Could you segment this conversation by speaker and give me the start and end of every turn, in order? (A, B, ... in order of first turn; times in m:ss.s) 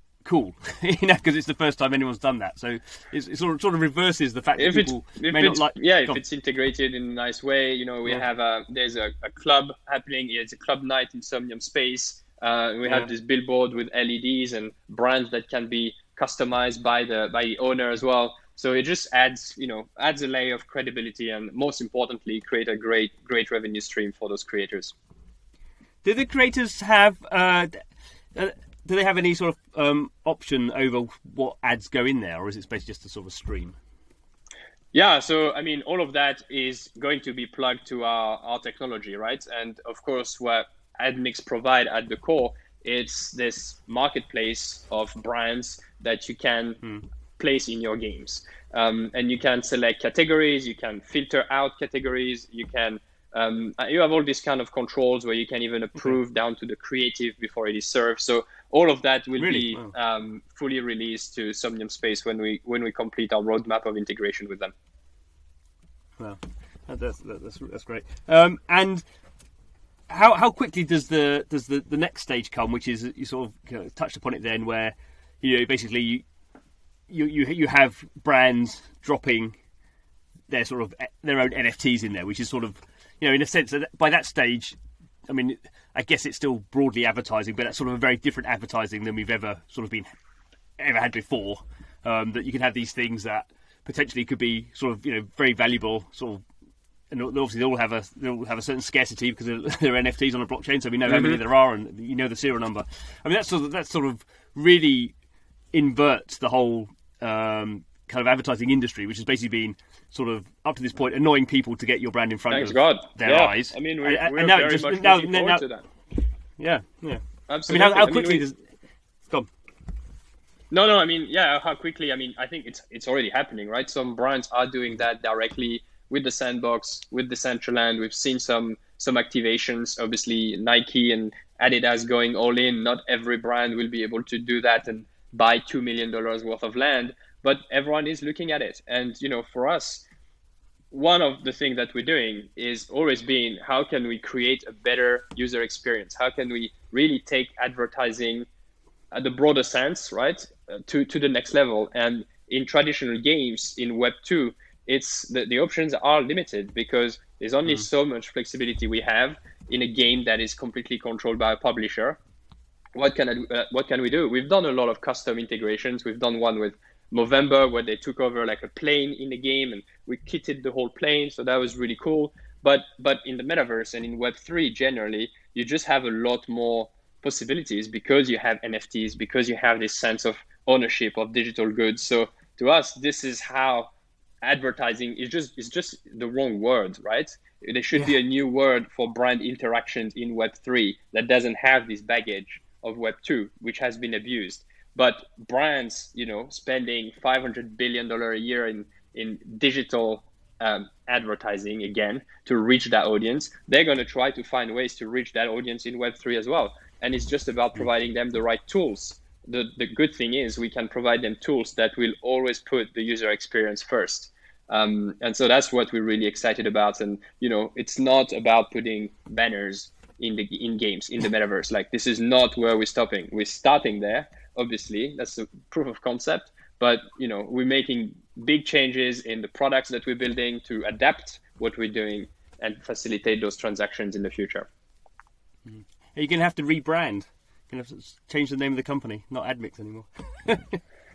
0:00.2-0:06.2 A
0:04.5-0:24.9 B
0:12.8-0:13.1 A
0:26.0-0:27.8 A
0:28.3-0:33.8 A
0:34.9-0:46.8 B
0:47.4-1:04.7 B
0:59.4-0:59.9 A
1:06.2-1:09.0 A
1:10.1-1:16.2 A
1:17.1-1:19.5 A
1:20.5-1:30.1 A
1:30.8-1:36.4 A
1:37.1-1:45.1 A
1:41.1-1:41.4 B
1:45.7-1:55.6 A
1:52.5-1:55.8 B
1:56.6-1:58.6 A
1:57.5-1:58.4 B
2:00.7-2:20.0 B
2:20.9-2:28.5 B
2:29.1-2:42.2 B
2:42.9-3:03.9 B
3:04.4-3:54.7 B
3:55.6-4:00.8 A